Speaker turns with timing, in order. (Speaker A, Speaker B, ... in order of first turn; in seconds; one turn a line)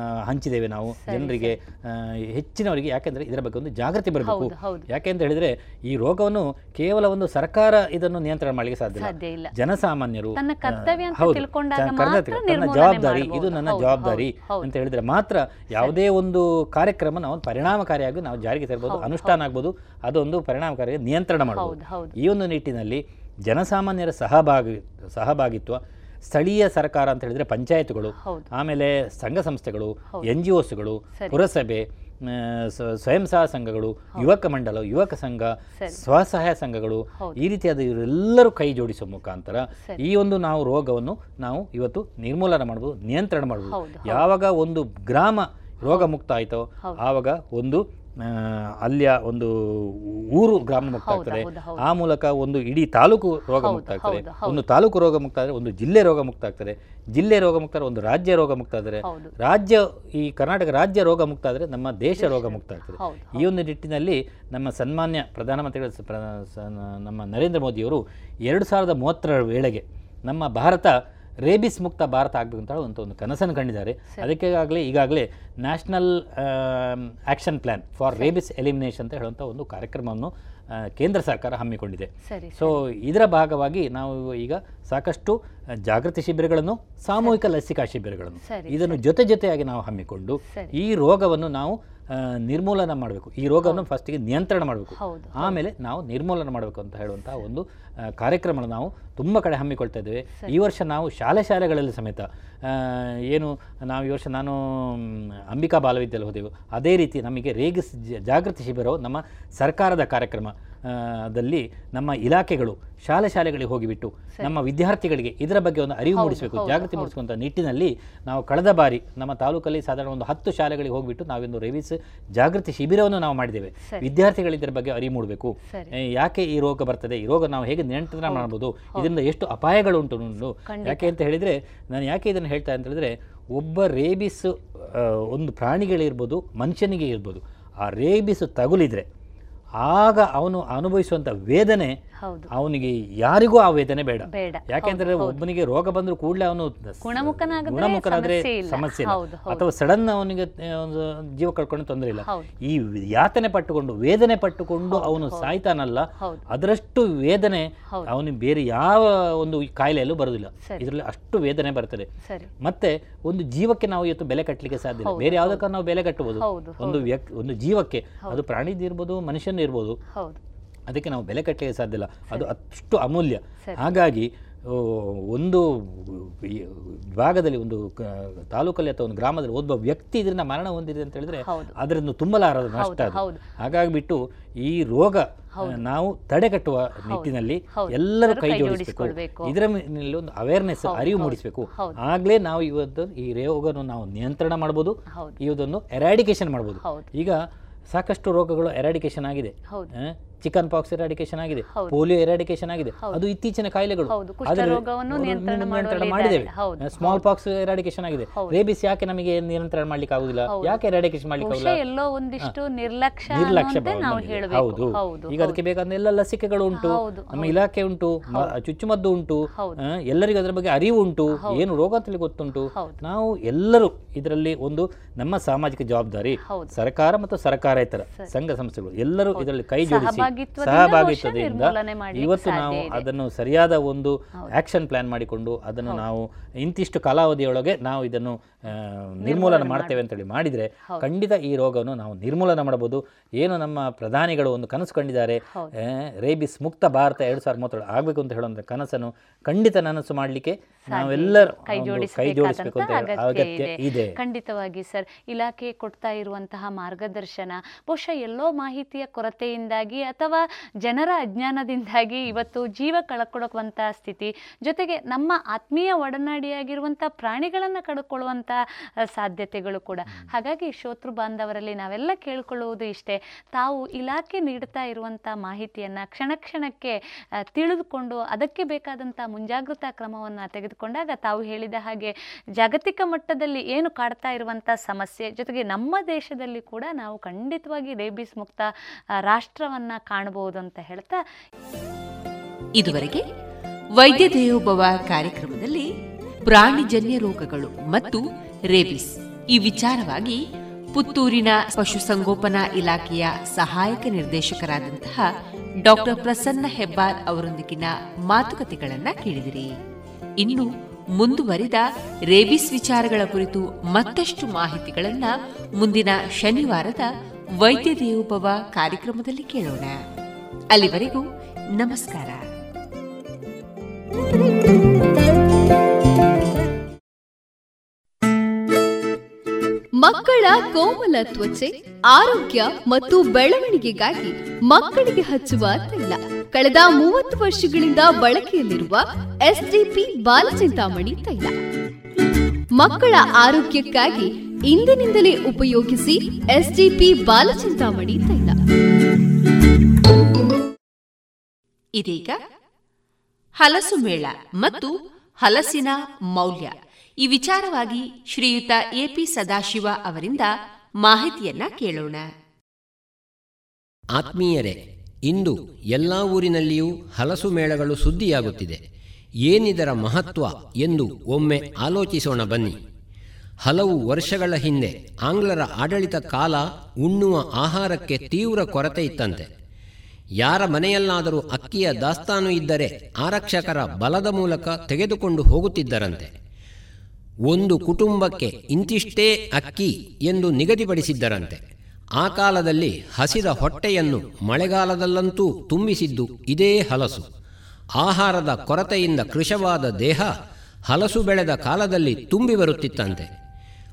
Speaker A: 0.3-70.9
Speaker B: 1.1-1.6
Speaker B: 4.2-4.9
Speaker B: 9.0-9.5
Speaker B: 10.4-14.7
Speaker B: 18.9-19.4
Speaker B: 21.6-22.1
Speaker B: 28.2-28.5
Speaker B: 31.1-31.4
Speaker B: 43.7-44.2
Speaker B: 51.1-51.8
Speaker B: 53.6-54.6
Speaker B: 59.0-59.3
Speaker B: 62.2-63.4
Speaker A: 71.5-80.3
Speaker A: 81.0-97.6
Speaker B: 82.3-82.8
Speaker B: 88.4-89.0
Speaker B: 90.5-90.7
Speaker B: 95.0-95.6
Speaker A: 98.2-125.5
Speaker B: 116.2-117.1
Speaker A: 126.2-139.1
Speaker B: 130.7-131.1
Speaker A: 139.8-142.0
Speaker B: 142.2-142.5
Speaker A: 142.5-162.1
Speaker B: 144.3-145.4
Speaker B: 147.1-149.6
Speaker B: 154.9-155.5
Speaker B: 162.2-162.5
Speaker A: 162.6-170.0
Speaker B: 165.1-165.6
Speaker B: 166.4-167.0
Speaker B: 170.1-170.4
Speaker A: 170.9-176.7
Speaker A: 177.2-197.4
Speaker B: 181.5-181.7
Speaker B: 182.8-183.5
Speaker B: 187.1-189.5
Speaker B: 190.8-191.9
Speaker B: 195.1-195.4
Speaker B: 196.8-197.1
Speaker A: 197.9-211.8
Speaker B: 204.1-207.2
Speaker B: 211.4-215.6
Speaker A: 213.3-219.4
Speaker B: 216.8-217.6
Speaker A: 220.1-245.4
Speaker B: 222.7-223.0
Speaker B: 226.4-226.7
Speaker B: 229.4-233.0
Speaker B: 239.3-240.0
Speaker A: 246.2-254.1
Speaker B: 250.9-268.6
Speaker B: 269.1-277.0
Speaker B: 277.6-288.7
Speaker B: 289.3-291.2
Speaker C: 292.8-293.2
Speaker C: 294.0-295.9
Speaker C: 296.4-300.4
Speaker C: 300.9-305.2
Speaker C: 305.8-309.8
Speaker C: 310.4-317.1
Speaker C: 317.6-319.9
Speaker C: 320.8-321.2
Speaker C: 321.8-322.4
Speaker D: 330.0-341.5
Speaker D: 342.8-348.6
Speaker C: 352.0-352.4
Speaker C: 353.6-360.5
Speaker C: 361.0-362.2
Speaker E: 364.2-368.8
Speaker E: 369.5-372.8
Speaker E: 373.6-379.5
Speaker E: 380.4-386.3
Speaker E: 387.5-391.6
Speaker E: 392.2-397.3
Speaker E: 398.0-400.3
Speaker E: 400.9-403.3